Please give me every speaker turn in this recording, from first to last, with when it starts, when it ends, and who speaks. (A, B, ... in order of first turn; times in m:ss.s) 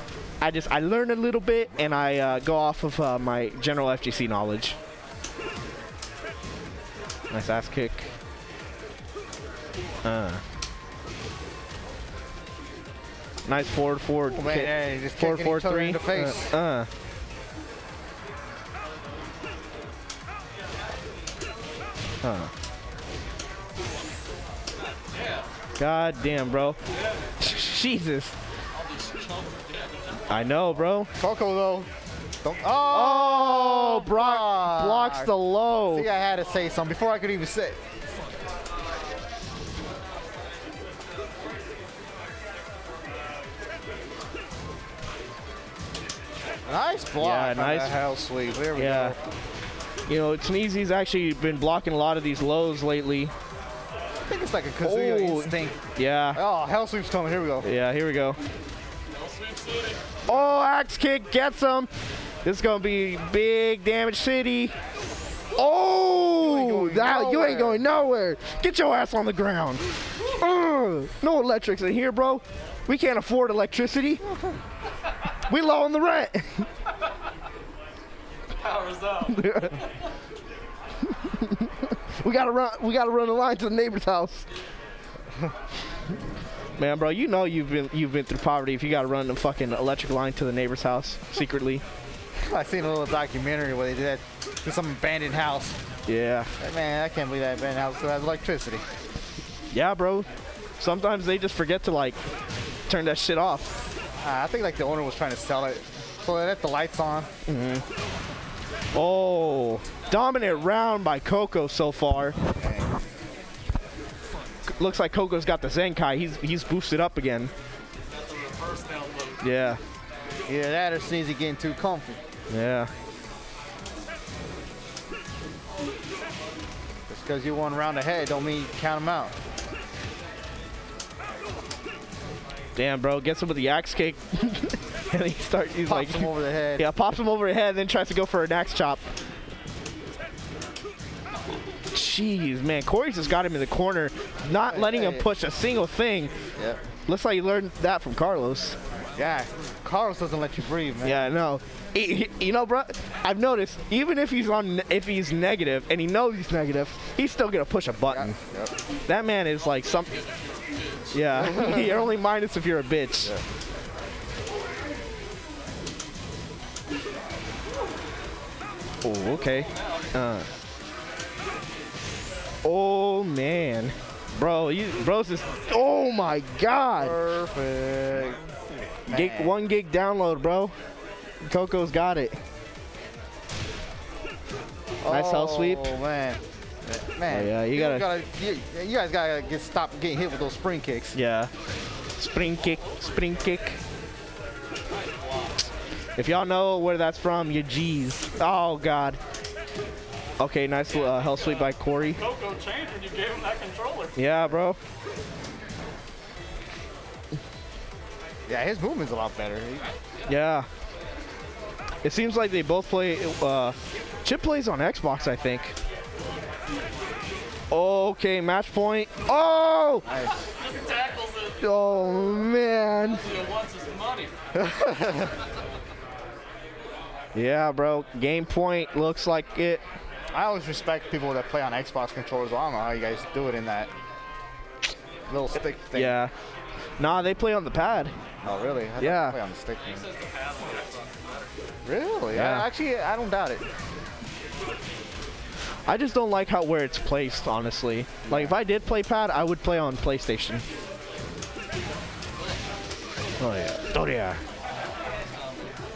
0:00.4-0:04.8 A
0:07.3-0:08.0 A
0:10.0-0:10.4 A
0:13.4-0:16.9 A
0:14.3-0:16.5 B
0:22.2-0:22.5 A
0:25.1-0:25.5 C
0:25.8-0:26.8 A
0:27.4-0:28.4 A
0:28.7-0:30.2 C
0:30.3-0:31.1 A
0:31.2-0:31.9 B
0:32.4-0:35.3 B
0:32.9-0:36.1 A
0:35.9-0:37.8 B
0:46.7-0:49.2 B
0:47.2-0:48.0 A
0:48.7-0:49.1 A
0:50.1-0:53.3 A
0:54.3-0:55.8 B
0:54.8-0:56.4 A
0:56.3-0:57.7 B
0:57.6-0:58.4 A
0:59.1-1:00.0 C
1:00.3-1:01.9 A
1:02.4-1:04.7 A
1:05.5-1:14.2 A
1:06.4-1:07.8 B
1:15.5-1:16.7 A
1:18.6-1:19.9 C
1:19.3-1:19.8 A
1:21.2-1:24.4 A
1:26.8-1:31.8 A
1:32.4-1:35.8 B
1:36.1-1:36.5 A
1:36.6-1:38.8 B
1:39.7-1:40.3 A
1:40.8-1:42.2 A
1:42.9-1:43.7 A
1:44.2-1:47.3 B
1:47.5-1:47.8 A
1:48.9-1:52.3 A
1:52.6-1:52.9 B
1:54.7-1:57.5 A
1:58.0-1:59.4 C
1:59.4-1:59.8 A
2:00.5-2:02.2 B
2:02.5-2:02.9 A
2:07.1-2:09.3 B
2:12.8-2:19.0 A
2:15.9-2:16.8 B
2:21.9-2:26.3 A
2:24.7-2:25.2 B
2:27.1-2:28.8 A
2:29.1-2:31.2 B
2:31.0-2:38.4 A
2:38.1-2:38.7 B
2:39.1-2:40.1 A
2:39.6-2:41.4 C
2:41.1-2:43.3 A
2:41.4-2:41.9 B
2:49.0-2:50.5 A
2:52.6-2:57.1 A
2:57.0-2:58.4 B
2:59.1-2:59.6 B
2:59.1-3:00.7 A
3:01.4-3:02.4 A
3:05.0-3:11.2 B
3:05.1-3:05.9 A
3:07.3-3:08.0 A
3:11.1-3:11.5 A
3:12.2-3:13.8 A
3:15.0-3:15.5 C
3:16.2-3:19.2 A
3:20.4-3:22.2 A
3:20.9-3:24.1 C
3:24.2-3:24.8 A
3:28.5-3:29.9 B
3:30.2-3:30.7 A
3:32.0-3:35.7 A
3:37.7-3:40.0 A
3:40.0-3:40.4 B
3:40.6-3:41.8 C
3:41.6-3:43.2 A
3:43.1-3:44.3 C
3:44.6-3:45.3 B
3:47.3-3:49.8 A
3:50.3-3:53.9 B
3:55.3-3:56.2 B
3:55.9-3:56.3 A
3:57.0-3:58.1 A
3:58.4-4:00.1 B
3:59.0-3:59.4 A
3:59.8-4:01.6 C
4:01.8-4:03.6 B
4:02.3-4:02.6 A
4:05.9-4:10.6 A
4:08.2-4:08.5 B
4:13.4-4:14.4 A
4:15.2-4:15.7 C